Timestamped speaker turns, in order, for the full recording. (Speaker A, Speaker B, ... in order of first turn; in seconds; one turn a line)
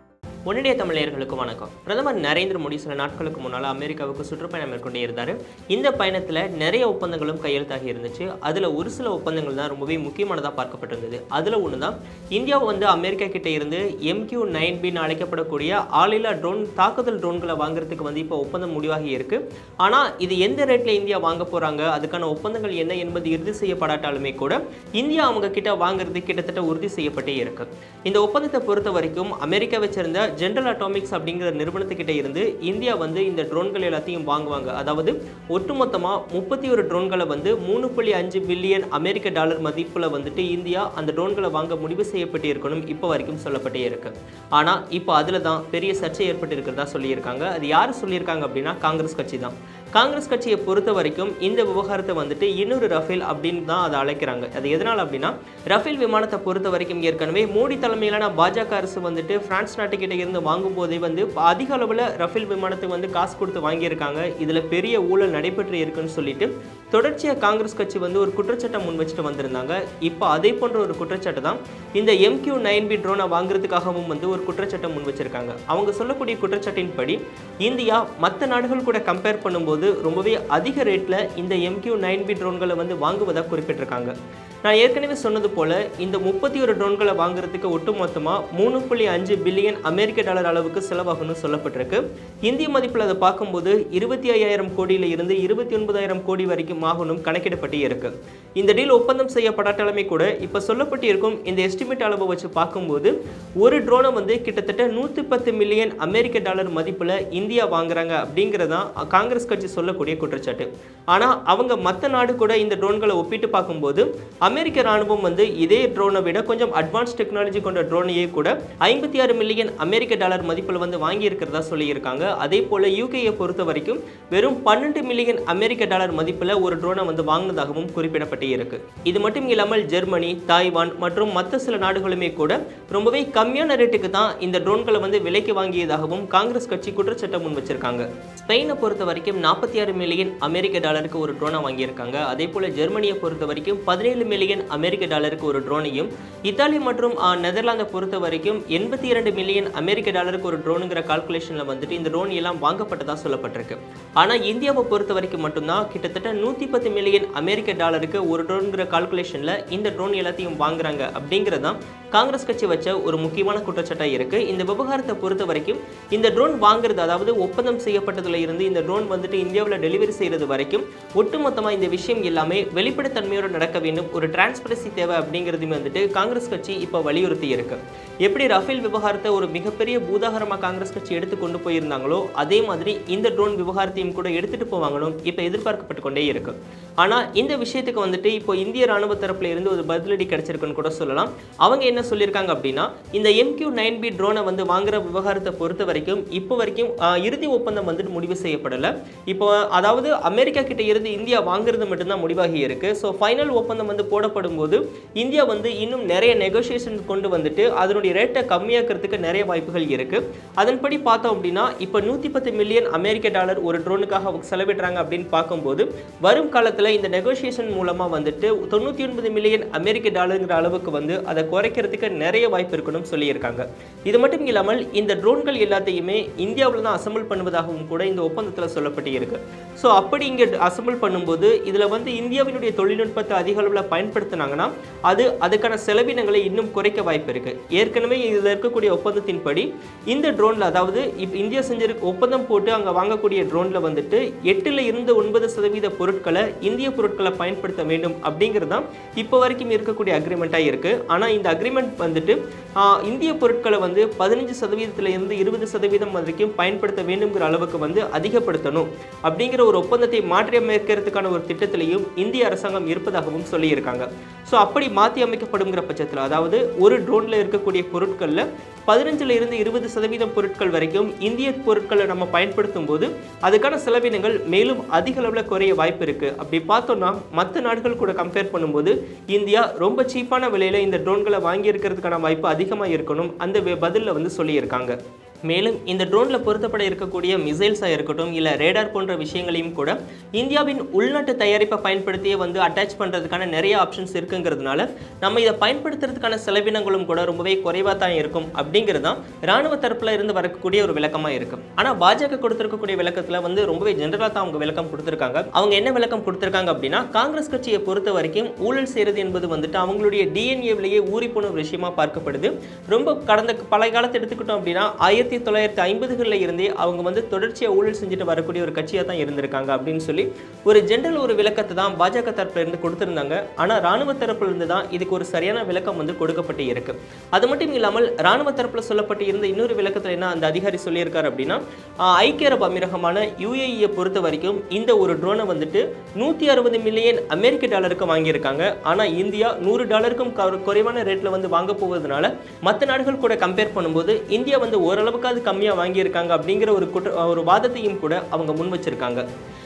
Speaker A: 0.5-84.1
Speaker A: 84.6-284.9
Speaker A: 285.5-349.2